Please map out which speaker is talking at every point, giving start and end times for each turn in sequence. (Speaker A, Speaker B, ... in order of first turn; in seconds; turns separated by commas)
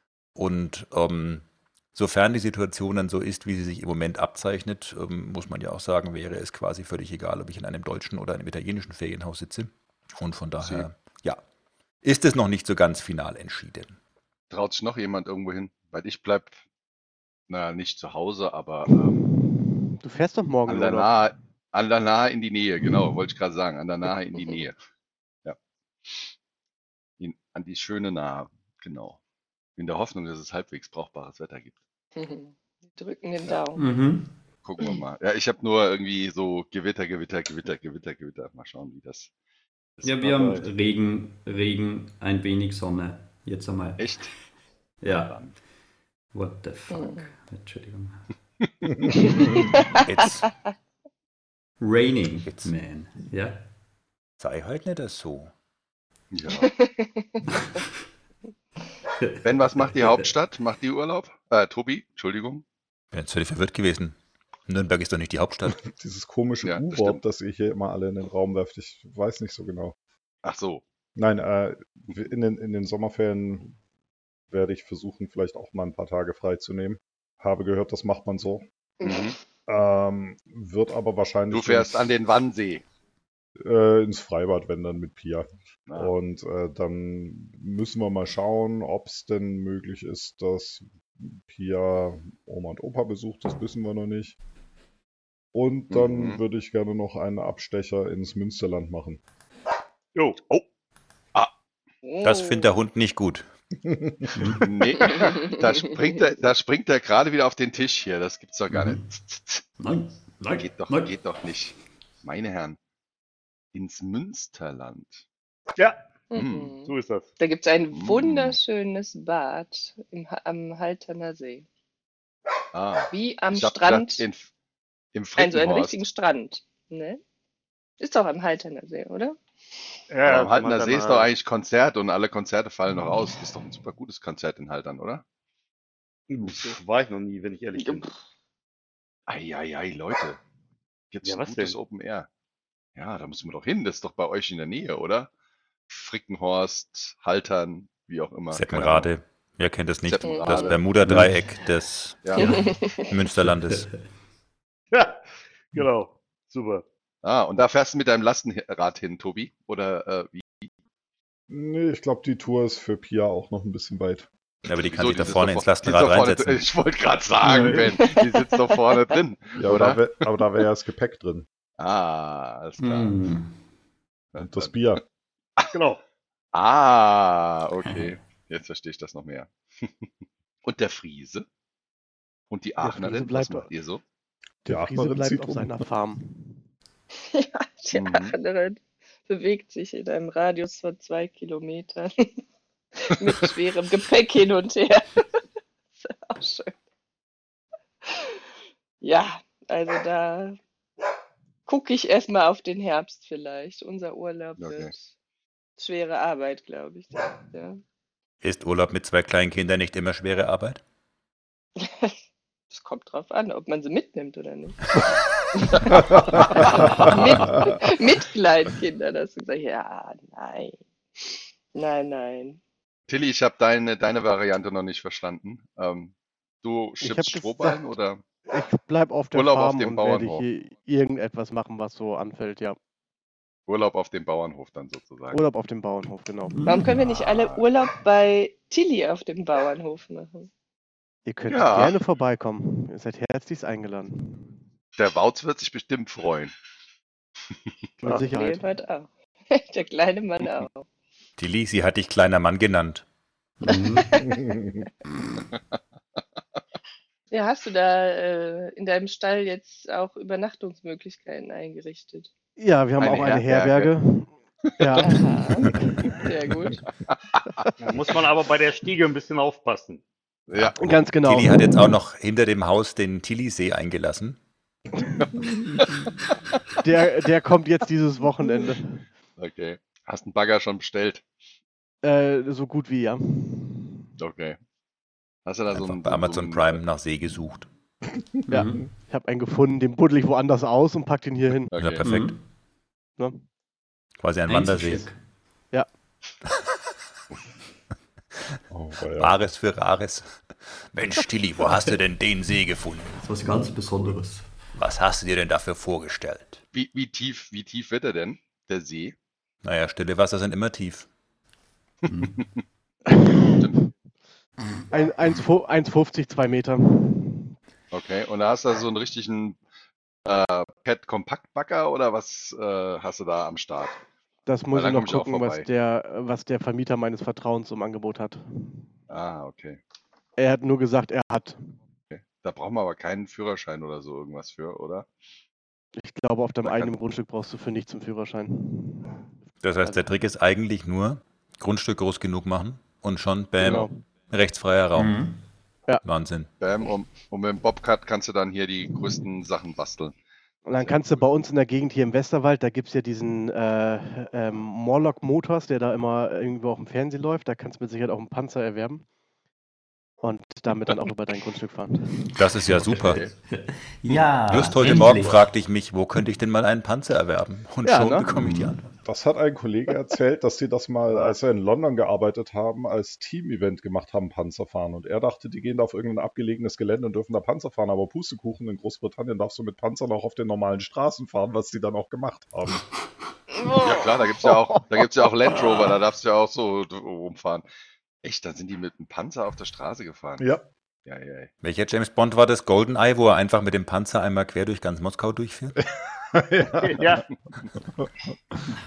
Speaker A: 0.4-11.4, Speaker A: 12.0-14.0, Speaker B: 14.5-16.6, Speaker B: 17.5-19.2, Speaker C: 19.4-21.1, Speaker B: 20.7-24.8, Speaker B: 27.2-29.2, Speaker B: 29.8-31.8, Speaker D: 32.2-33.8, Speaker E: 33.8-34.3, Speaker B: 34.6-39.3, Speaker B: 40.0-40.7, Speaker E: 40.0-44.1, Speaker B: 44.0-44.3, Speaker E: 45.0-45.4, Speaker B: 45.2-45.5, Speaker E: 46.3-48.2, Speaker D: 46.9-47.3, Speaker D: 49.1-50.5, Speaker A: 50.0-50.5, Speaker E: 51.8-53.6, Speaker A: 52.5-52.7, Speaker A: 54.4-55.5, Speaker B: 56.3-56.7, Speaker D: 56.6-57.1, Speaker E: 59.2-60.2, Speaker B: 59.4-62.6, Speaker A: 63.1-65.9, Speaker F: 65.8-70.0, Speaker B: 66.6-67.2, Speaker B: 70.4-70.8, Speaker F: 71.2-73.8, Speaker F: 74.5-78.7, Speaker D: 79.0-79.3, Speaker B: 79.0-79.4, Speaker F: 79.7-82.1, Speaker B: 81.5-82.8, Speaker F: 83.6-94.4, Speaker F: 95.5-99.2, Speaker B: 95.9-96.4, Speaker D: 102.0-102.7, Speaker A: 102.2-103.5, Speaker F: 103.9-104.3, Speaker E: 104.3-104.7, Speaker B: 104.6-109.7, Speaker D: 105.0-106.2, Speaker E: 108.7-109.0, Speaker E: 109.8-111.1, Speaker B: 110.5-112.8, Speaker B: 113.7-115.2, Speaker D: 116.3-121.7, Speaker B: 116.4-116.8, Speaker G: 116.8-117.3, Speaker B: 117.9-118.6, Speaker B: 122.7-124.5, Speaker D: 123.1-124.3, Speaker B: 125.1-126.0, Speaker D: 125.4-127.2, Speaker D: 128.0-129.4, Speaker G: 130.1-131.3, Speaker B: 130.3-135.2, Speaker G: 136.3-138.1, Speaker B: 136.5-136.8, Speaker D: 137.8-138.1, Speaker B: 139.3-140.4, Speaker B: 141.1-142.3, Speaker G: 141.2-141.8, Speaker B: 143.0-145.3, Speaker B: 145.9-149.1, Speaker A: 148.5-152.2, Speaker B: 150.1-150.8, Speaker D: 150.2-150.8, Speaker E: 151.0-151.3, Speaker B: 152.2-152.6, Speaker D: 152.4-153.1, Speaker A: 153.1-153.9, Speaker G: 154.9-156.8, Speaker B: 157.2-160.7, Speaker F: 161.5-164.3, Speaker A: 164.7-166.6, Speaker B: 164.8-170.0, Speaker E: 167.4-167.9, Speaker D: 168.0-168.7, Speaker F: 169.6-171.5, Speaker B: 171.8-173.2, Speaker E: 172.8-173.5, Speaker B: 174.3-174.8, Speaker F: 174.4-175.0, Speaker G: 175.7-176.0, Speaker B: 176.5-180.1, Speaker B: 180.6-181.5, Speaker B: 182.5-184.0, Speaker C: 182.8-183.7, Speaker C: 184.7-186.6, Speaker F: 184.7-185.8, Speaker D: 187.3-192.3, Speaker B: 187.9-188.3, Speaker D: 193.0-195.2, Speaker D: 196.0-196.8, Speaker D: 199.0-200.6, Speaker D: 201.7-205.1, Speaker B: 204.6-204.9, Speaker D: 205.8-207.8, Speaker A: 208.4-210.8, Speaker D: 211.8-212.1, Speaker D: 212.7-214.8, Speaker D: 215.6-220.8, Speaker B: 216.6-217.6, Speaker D: 221.7-222.6, Speaker B: 223.1-228.2, Speaker C: 227.0-227.8, Speaker C: 228.5-232.8, Speaker B: 229.3-230.4, Speaker B: 233.7-235.4, Speaker C: 235.3-236.6, Speaker E: 236.5-237.1, Speaker D: 236.7-240.5, Speaker B: 237.0-237.6, Speaker C: 241.3-244.4, Speaker B: 241.5-242.0, Speaker B: 245.0-246.5, Speaker C: 248.0-248.6, Speaker D: 248.1-250.9, Speaker A: 251.4-253.0, Speaker E: 253.6-254.1, Speaker D: 253.7-254.5, Speaker D: 257.3-262.3, Speaker C: 262.6-265.7, Speaker B: 263.0-263.9, Speaker D: 265.0-266.9, Speaker B: 267.1-267.6, Speaker G: 267.8-270.0, Speaker B: 270.5-270.8, Speaker A: 270.6-274.4, Speaker C: 270.8-271.8, Speaker B: 275.4-276.0, Speaker C: 276.8-279.0, Speaker B: 279.4-281.2, Speaker C: 282.0-284.1, Speaker B: 284.2-284.6, Speaker B: 285.4-286.8, Speaker A: 285.7-287.7, Speaker E: 288.5-288.8, Speaker C: 288.5-291.7, Speaker B: 291.7-292.0, Speaker A: 291.8-292.4, Speaker E: 292.0-292.4, Speaker A: 294.2-295.1, Speaker E: 294.5-295.2, Speaker F: 298.7-299.4, Speaker A: 299.2-303.2, Speaker E: 303.2-304.5, Speaker A: 304.8-306.6, Speaker B: 306.7-309.1, Speaker A: 309.6-311.1, Speaker B: 312.1-312.4, Speaker E: 312.1-312.4, Speaker C: 313.1-313.6, Speaker B: 313.5-313.8, Speaker C: 314.9-317.5, Speaker B: 317.9-319.6, Speaker B: 320.2-324.0, Speaker C: 324.5-328.8, Speaker B: 324.7-325.7, Speaker B: 329.1-329.8, Speaker C: 330.4-331.6, Speaker B: 332.1-335.1, Speaker C: 336.0-339.1, Speaker B: 336.6-336.9, Speaker A: 339.6-345.2, Speaker C: 343.6-343.9, Speaker E: 345.0-345.4, Speaker A: 346.0-346.5, Speaker B: 346.6-350.1, Speaker C: 350.7-359.1, Speaker C: 360.2-362.0, Speaker A: 362.4-363.2, Speaker B: 362.9-363.3, Speaker E: 363.5-365.4, Speaker A: 364.5-368.9, Speaker C: 367.9-368.3, Speaker E: 368.3-368.7, Speaker F: 369.0-382.9, Speaker C: 371.1-371.4, Speaker D: 383.6-384.1, Speaker B: 383.8-387.6, Speaker B: 388.2-390.5, Speaker F: 390.4-390.6, Speaker B: 391.1-391.5, Speaker A: 391.6-395.8, Speaker F: 396.1-397.2, Speaker G: 396.8-397.2